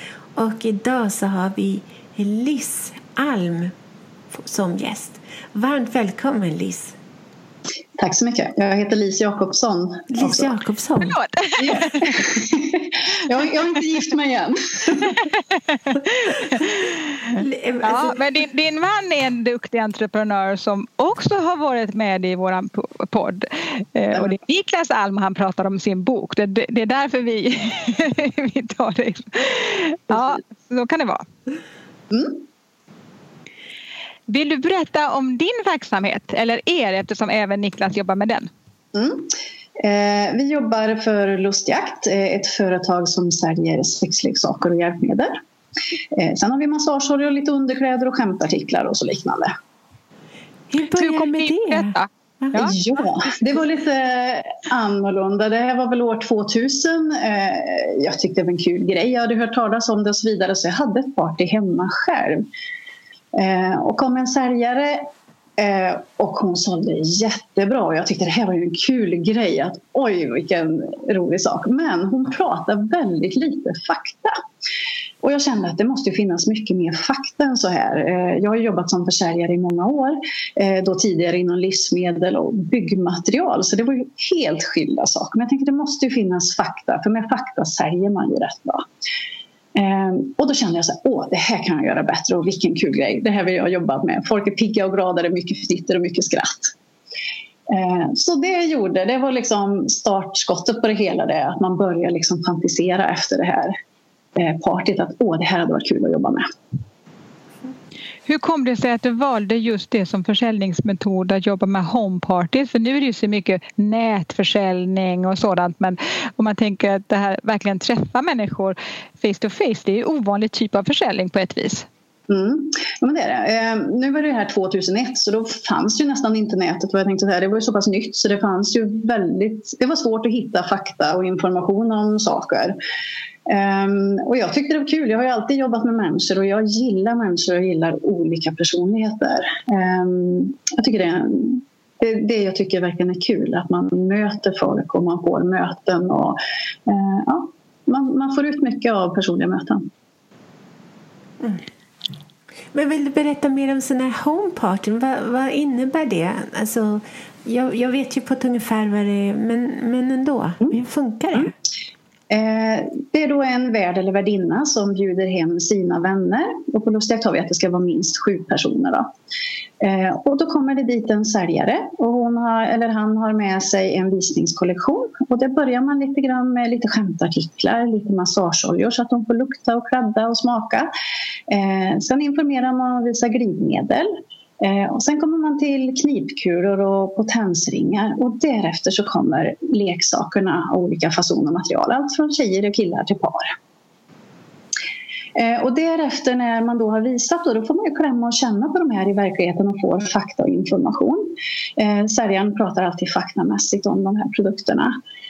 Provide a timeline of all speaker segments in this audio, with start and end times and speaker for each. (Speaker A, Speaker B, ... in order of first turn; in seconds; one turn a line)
Speaker A: 0.3-3.7
Speaker A: 4.3-6.9
Speaker B: 8.0-10.5
Speaker A: 10.1-11.2
Speaker C: 11.1-12.1
Speaker B: 11.6-15.1
Speaker C: 15.1-31.2
Speaker A: 17.4-18.2
Speaker B: 32.1-32.4
Speaker C: 34.3-38.5
Speaker B: 38.9-45.3
Speaker B: 46.1-49.5
Speaker A: 50.7-52.5
Speaker C: 50.9-52.7
Speaker B: 52.5-62.4
Speaker B: 63.3-65.0
Speaker B: 65.6-74.3
Speaker B: 75.2-88.8
Speaker B: 89.7-96.7
Speaker B: 97.7-103.7
Speaker B: 104.4-106.4
Speaker C: 108.2-121.8
Speaker B: 122.3-132.7
Speaker B: 133.5-149.8
Speaker A: 152.7-161.5
Speaker B: 162.3-169.0
Speaker B: 169.8-180.9
Speaker B: 181.5-184.1
Speaker B: 184.6-193.5
Speaker B: 195.3-204.9